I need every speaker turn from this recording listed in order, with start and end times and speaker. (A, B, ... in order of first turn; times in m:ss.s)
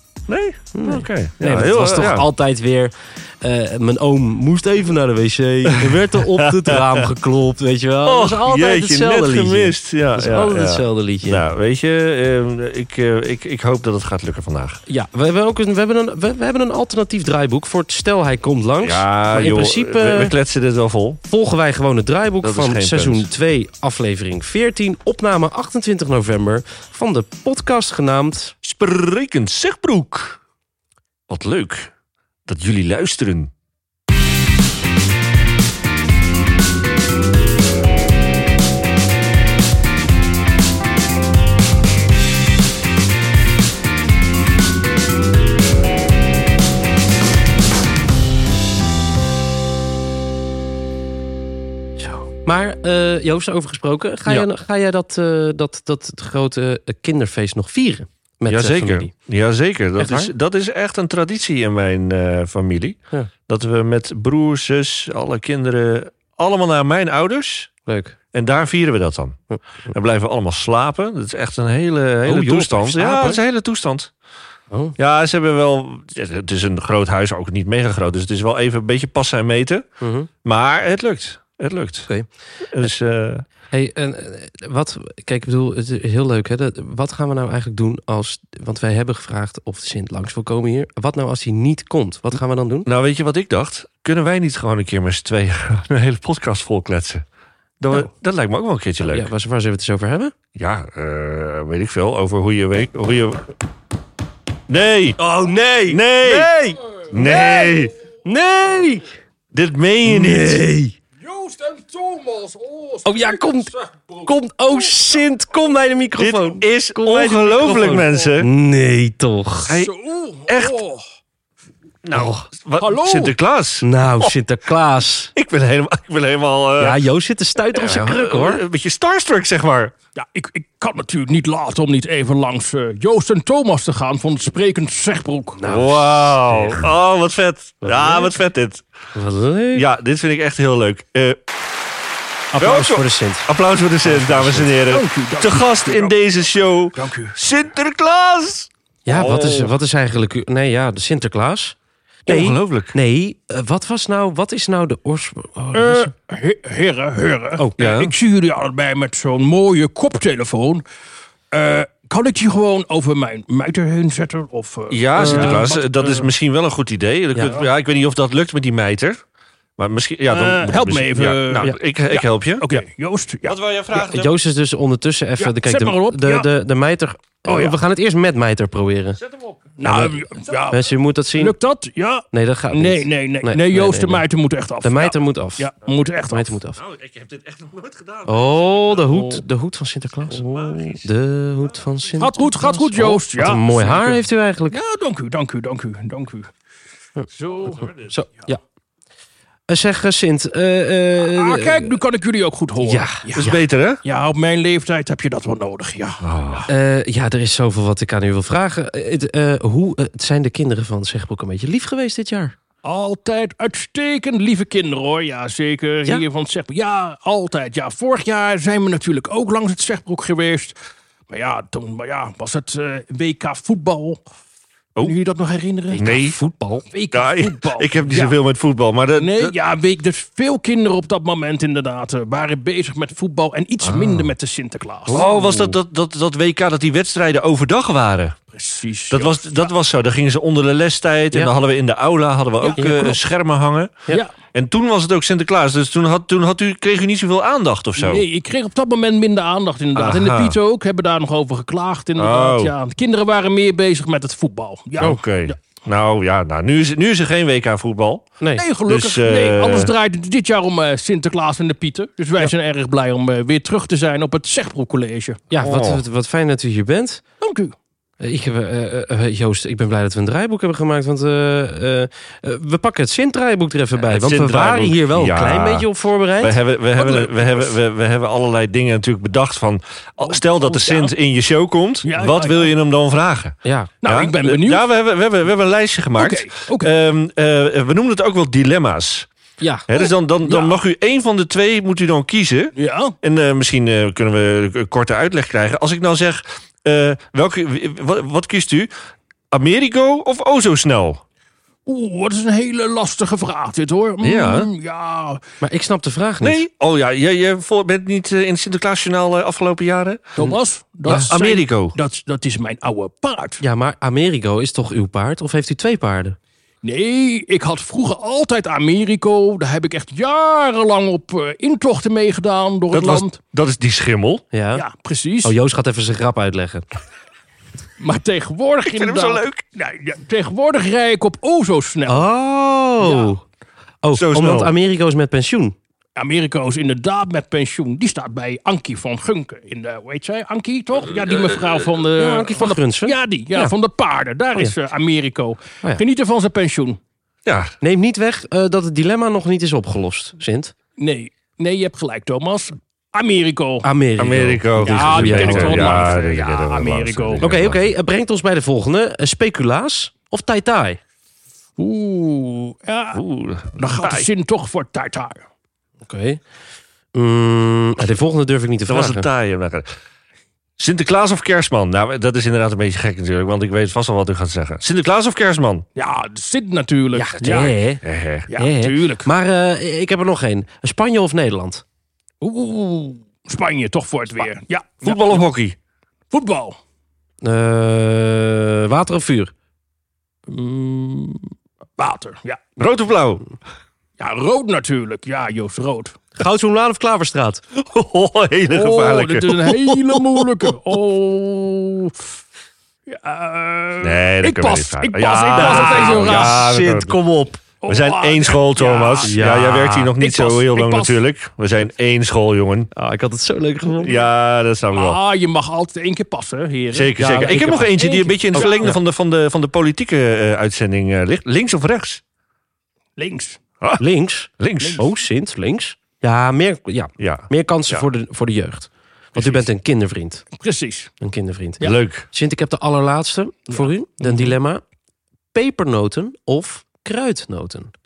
0:00.3-0:02.3 A
0:00.7-0:11.4 B
0:05.7-0:07.1 A
0:08.0-0:14.8 A
0:14.9-0:20.3 B
0:18.8-0:21.2 A
0:21.3-0:28.6 B
0:22.4-0:23.3 A
0:28.6-0:30.4 A
0:31.3-0:31.9 A
0:32.5-0:33.5 A
0:52.0-0:59.1 B
0:58.5-1:07.7 A
1:00.0-1:00.3 B
1:07.9-1:08.2 B
1:08.3-1:09.4 A
1:09.9-1:14.1 A
1:12.2-1:13.4 B
1:14.7-1:15.0 B
1:15.0-1:19.9 A
1:20.0-1:20.3 B
1:20.4-1:22.1 A
1:22.7-1:23.4 A
1:23.7-1:32.9 B
1:32.9-1:37.2 A
1:37.8-1:39.3 A
1:39.0-1:40.3 B
1:40.6-1:43.4 A
1:44.7-1:45.2 A
1:45.2-1:47.3 B
1:45.9-1:46.5 A
1:47.1-1:47.9 C
1:47.1-1:47.9 A
1:48.2-1:49.1 B
1:49.5-1:50.6 A
1:50.0-1:51.0 B
1:51.2-1:54.3 C
1:53.1-1:59.8 B
1:56.2-1:58.5 A
1:59.7-1:59.9 A
1:59.8-2:01.0 C
2:00.5-2:00.8 A
2:02.0-2:04.3 A
2:02.1-2:02.5 B
2:02.8-2:03.3 C
2:03.8-2:05.3 B
2:05.4-2:07.0 A
2:06.8-2:08.6 B
2:07.7-2:09.9 A
2:10.2-2:15.6 C
2:15.6-2:16.9 B
2:15.7-2:18.8 A
2:17.8-2:18.3 B
2:19.1-2:19.8 B
2:19.7-2:21.4 A
2:22.5-2:23.5 B
2:22.6-2:29.8 A
2:24.0-2:24.7 B
2:24.6-2:26.2 C
2:26.9-2:27.4 C
2:29.1-2:36.1 B
2:32.3-2:33.0 A
2:35.7-2:40.8 C
2:37.8-2:38.2 A
2:41.5-2:46.3 C
2:44.9-2:49.2 A
2:45.2-2:45.7 B
2:49.8-2:52.8 A
2:50.3-2:53.6 C
2:53.5-2:54.3 A
2:54.0-2:59.2 B
2:55.4-2:56.5 C
2:57.5-2:57.8 C
2:59.2-2:59.7 A
2:59.8-3:00.8 C
2:59.8-3:01.6 B
3:01.4-3:06.6 C
3:02.3-3:04.2 B
3:04.8-3:05.7 B
3:06.3-3:06.8 B
3:06.8-3:09.1 A
3:08.3-3:14.8 B
3:09.1-3:09.4 C
3:10.3-3:11.1 A
3:12.2-3:16.5 C
3:17.4-3:17.9 C
3:17.6-3:18.1 A
3:17.8-3:18.6 B
3:19.7-3:22.0 B
3:21.2-3:26.7 C
3:22.8-3:23.6 B
3:23.4-3:24.0 A
3:26.2-3:26.7 A
3:26.7-3:32.6 B
3:32.8-3:40.8 C
3:41.3-3:44.2 C
3:45.0-3:46.0 C
3:45.9-3:46.9 B
3:46.0-3:46.4 A
3:46.9-3:48.4 C
3:47.1-3:49.6 A
3:49.2-3:55.3 C
3:53.8-3:54.3 A
3:55.1-3:55.8 B
3:55.1-3:58.4 A
3:58.5-3:59.7 C
3:59.1-4:08.2 A
4:02.6-4:03.1 C
4:02.8-4:03.2 B
4:08.0-4:15.6 C
4:10.0-4:10.6 A
4:12.2-4:12.7 A
4:15.0-4:18.3 A
4:18.6-4:25.4 C
4:18.9-4:19.9 A
4:25.5-4:27.2 B
4:25.6-4:26.0 A
4:27.4-4:27.7 C
4:28.2-4:36.6 B
4:34.0-4:35.9 A
4:36.4-4:49.3 A
4:37.0-4:37.7 C
4:40.2-4:41.1 C
4:42.0-4:42.7 C
4:43.6-4:43.9 B
4:44.0-4:44.8 C
4:46.2-4:46.9 C
4:49.6-4:49.9 B
4:49.9-4:58.9 A
4:50.0-4:50.7 C
4:52.8-4:53.2 C
4:59.5-5:01.2 A
5:01.9-5:05.4 C
5:04.2-5:04.7 A
5:05.6-5:06.6 B
5:06.4-5:10.4 A
5:10.4-5:13.6 C
5:10.4-5:11.3 B
5:11.1-5:12.0 A
5:13.6-5:16.4 B
5:16.8-5:23.4 C
5:22.9-5:24.4 A
5:24.5-5:24.8 B
5:24.8-5:25.6 C
5:25.4-5:26.8 B
5:28.0-5:32.3 C
5:28.9-5:29.6 A
5:32.1-5:33.4 B
5:33.0-5:33.3 C
5:34.0-5:35.8 B
5:34.1-5:34.7 A
5:36.2-5:47.0 C
5:41.1-5:41.8 A
5:42.2-5:43.7 B
5:47.5-5:47.8 A
5:47.8-5:50.7 B
5:51.0-5:53.9 C
5:53.8-5:56.1 B
5:54.2-5:57.9 A
5:54.8-5:57.4 C
5:57.4-6:01.0 B
6:01.8-6:03.2 C
6:03.1-6:04.3 A
6:03.8-6:05.4 C
6:06.0-6:06.4 B
6:07.2-6:09.3 B
6:08.9-6:09.9 A
6:10.8-6:15.8 A
6:16.0-6:17.7 C
6:17.1-6:18.0 B
6:17.5-6:18.5 A
6:18.5-6:19.3 C
6:18.5-6:21.8 B
6:22.4-6:25.4 C
6:25.0-6:25.8 A
6:26.3-6:26.8 C
6:27.4-6:29.5 B
6:30.5-6:32.6 C
6:32.8-6:33.4 A
6:34.2-6:36.2 C
6:36.4-6:37.6 B
6:37.7-6:40.8 A
6:38.7-6:42.2 C
6:43.1-6:46.6 C
6:44.0-6:47.2 A
6:45.5-6:47.6 B
6:47.8-6:51.2 C
6:47.9-6:52.9 A
6:49.2-6:50.1 B
6:52.9-6:54.2 B
6:54.0-6:55.2 A
6:54.9-6:59.0 C
6:56.9-7:02.2 A
6:57.2-6:57.9 B
6:58.6-6:59.0 B
7:03.2-7:03.6 C
7:04.0-7:10.4 B
7:04.6-7:05.0 A
7:07.2-7:08.1 A
7:09.4-7:09.7 C
7:10.5-7:11.1 C
7:11.2-7:14.8 B
7:11.8-7:12.3 A
7:13.7-7:14.5 C
7:15.5-7:17.9 B